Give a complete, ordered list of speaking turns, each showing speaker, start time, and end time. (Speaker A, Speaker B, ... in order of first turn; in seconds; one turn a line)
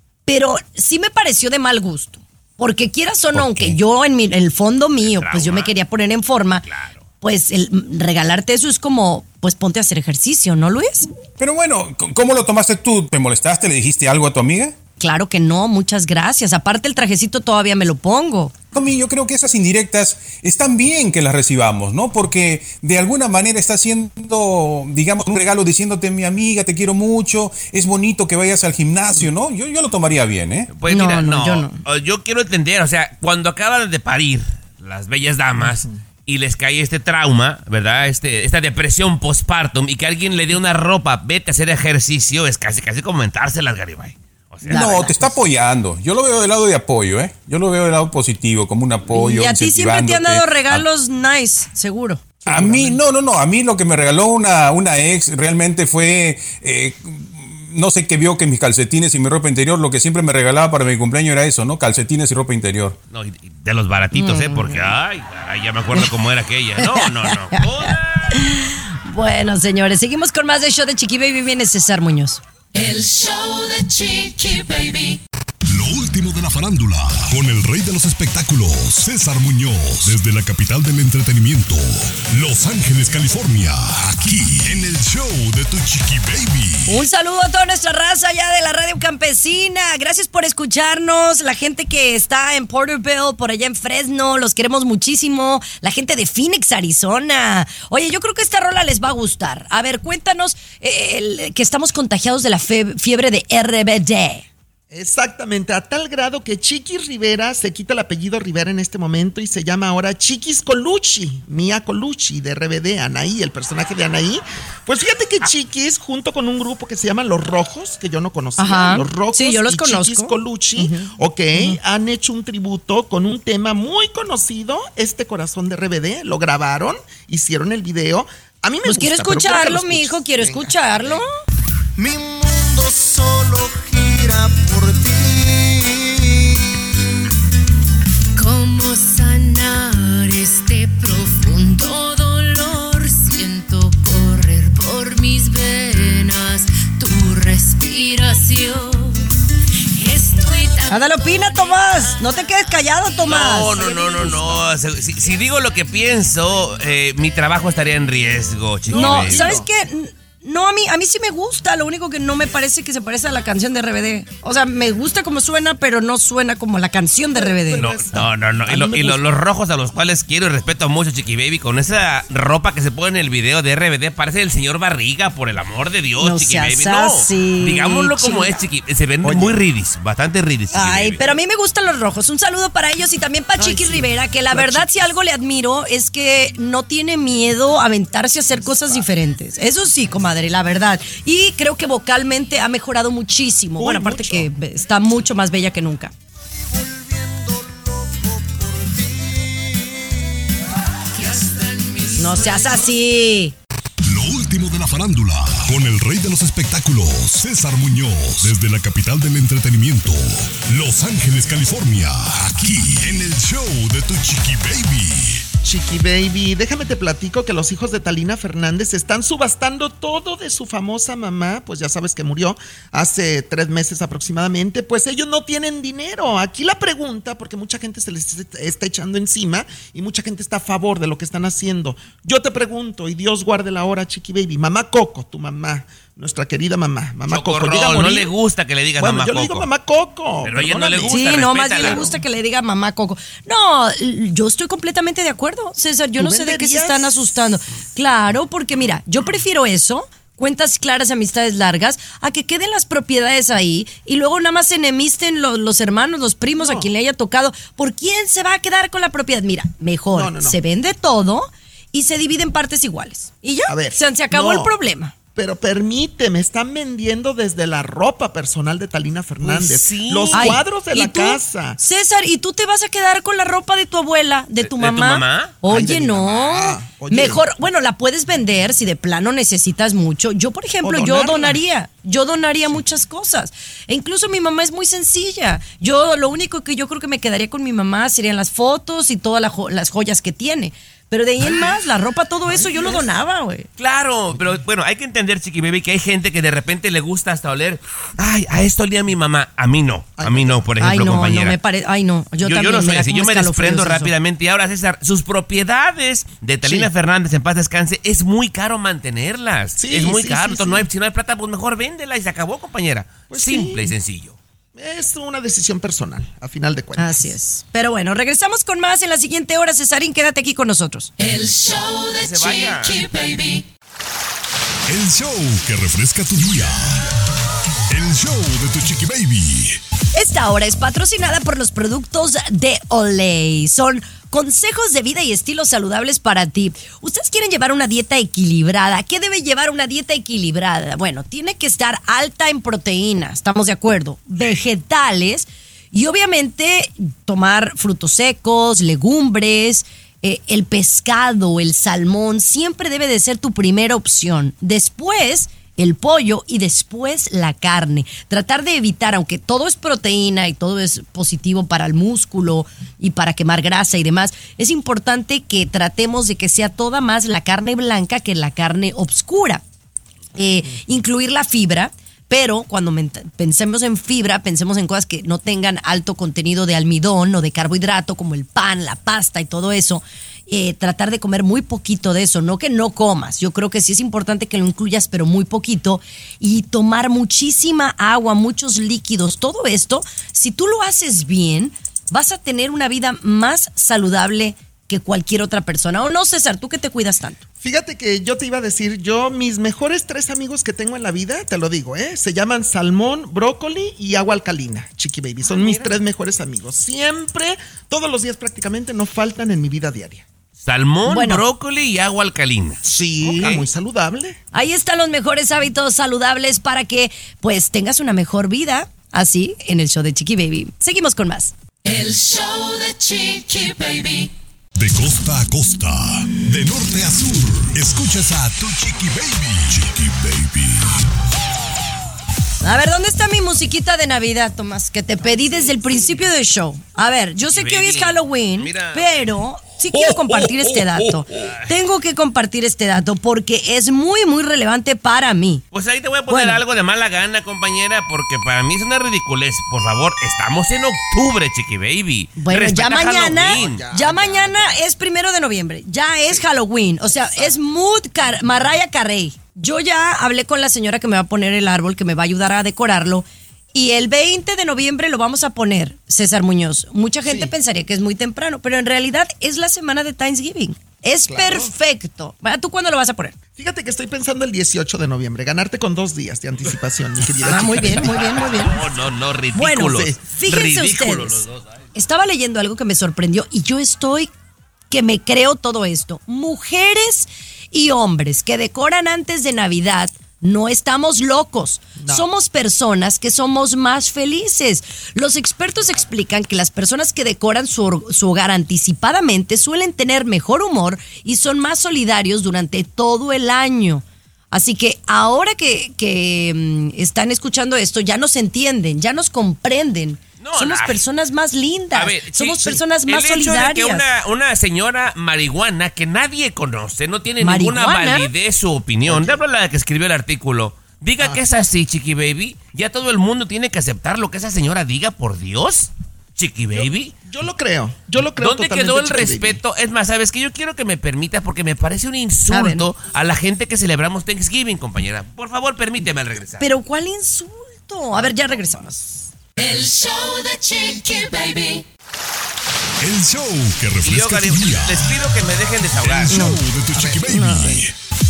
Speaker A: 0.3-6.7
Speaker B: 3.3-3.8
Speaker C: 5.0-5.7
Speaker C: 6.7-7.0
Speaker A: 7.2-11.1
Speaker B: 11.4-14.8
Speaker A: 15.0-18.6
Speaker B: 18.7-30.7
Speaker C: 30.7-45.1
Speaker A: 30.9-31.8
Speaker B: 44.7-50.9
Speaker A: 44.7-45.3
Speaker A: 49.1-52.4
Speaker B: 52.5-63.0
Speaker D: 52.5-53.0
Speaker C: 63.1-68.3
Speaker A: 64.1-64.9
Speaker A: 66.8-72.4
Speaker E: 72.7-75.2
Speaker F: 75.7-87.0
Speaker A: 86.9-104.5
Speaker D: 104.9-131.2
Speaker A: 118.6-121.8
Speaker A: 128.8-131.3
Speaker G: 132.0-136.6
Speaker H: 138.4-149.2
Speaker H: 150.0-152.2
Speaker A: 150.9-153.9
Speaker C: 153.3-159.6
Speaker D: 158.9-159.7
Speaker A: 158.9-167.9
Speaker D: 167.3-169.2
Speaker C: 167.8-181.2
Speaker A: 168.7-169.0
Speaker A: 176.2-178.6
Speaker D: 179.2-179.6
Speaker A: 180.7-196.1
Speaker D: 183.6-184.9
Speaker D: 193.8-194.5
Speaker G: 196.5-200.4
Speaker H: 201.2-202.9
Speaker A: 202.2-203.5
Speaker F: 204.0-215.4
Speaker D: 215.6-238.3
Speaker C: 237.3-239.7
Speaker D: 239.0-242.2
Speaker C: 240.4-242.2
Speaker A: 241.0-265.2
Speaker D: 246.2-247.2
Speaker D: 256.6-256.9
Speaker D: 260.1-260.6
Speaker D: 263.7-264.7
Speaker D: 265.4-271.8
Speaker C: 269.4-270.6
Speaker A: 270.3-293.7
Speaker C: 274.6-275.6
Speaker D: 275.6-277.4
Speaker D: 280.8-281.6
Speaker D: 291.4-291.8
Speaker D: 292.5-293.1
Speaker C: 293.8-301.6
Speaker D: 300.2-300.7
Speaker A: 300.8-304.1
Speaker C: 302.4-314.4
Speaker D: 309.8-310.9
Speaker D: 313.3-313.9
Speaker D: 314.8-317.3
Speaker A: 317.0-321.1
Speaker E: 321.2-323.6
Speaker C: 322.2-323.0
Speaker F: 324.9-327.1
Speaker F: 327.9-329.8
Speaker A: 330.1-369.6
Speaker C: 344.4-344.6
Speaker A: 370.4-397.4
Speaker D: 397.6-410.2
Speaker C: 405.4-405.9
Speaker C: 410.6-413.7
Speaker A: 411.1-411.4
Speaker D: 412.8-414.4
Speaker A: 414.5-421.5
Speaker E: 421.8-424.3
Speaker F: 424.8-431.0
Speaker A: 432.6-445.6
Speaker C: 437.5-439.3
Speaker F: 440.0-441.0
Speaker C: 445.7-453.8
Speaker A: 446.3-446.6
Speaker A: 452.4-473.4
Speaker D: 453.1-454.8
Speaker D: 457.2-457.5
Speaker D: 467.2-467.5
Speaker D: 471.3-471.7
Speaker D: 473.6-478.5
Speaker A: 477.4-478.8
Speaker C: 477.7-481.5
Speaker A: 479.6-481.4
Speaker A: 481.9-484.3
Speaker A: 484.9-514.1
Speaker D: 492.0-492.3
Speaker C: 510.4-511.0
Speaker C: 511.9-527.1
Speaker A: 517.4-518.3
Speaker D: 519.1-519.4
Speaker D: 526.7-529.6
Speaker C: 528.4-536.7
Speaker A: 532.5-532.9
Speaker A: 536.6-539.0
Speaker D: 538.2-538.9
Speaker E: 539.6-541.9
Speaker F: 543.0-545.2
Speaker C: 544.0-546.4
Speaker F: 545.9-547.9
Speaker A: 546.3-546.6
Speaker D: 546.9-547.8
Speaker A: 547.2-547.8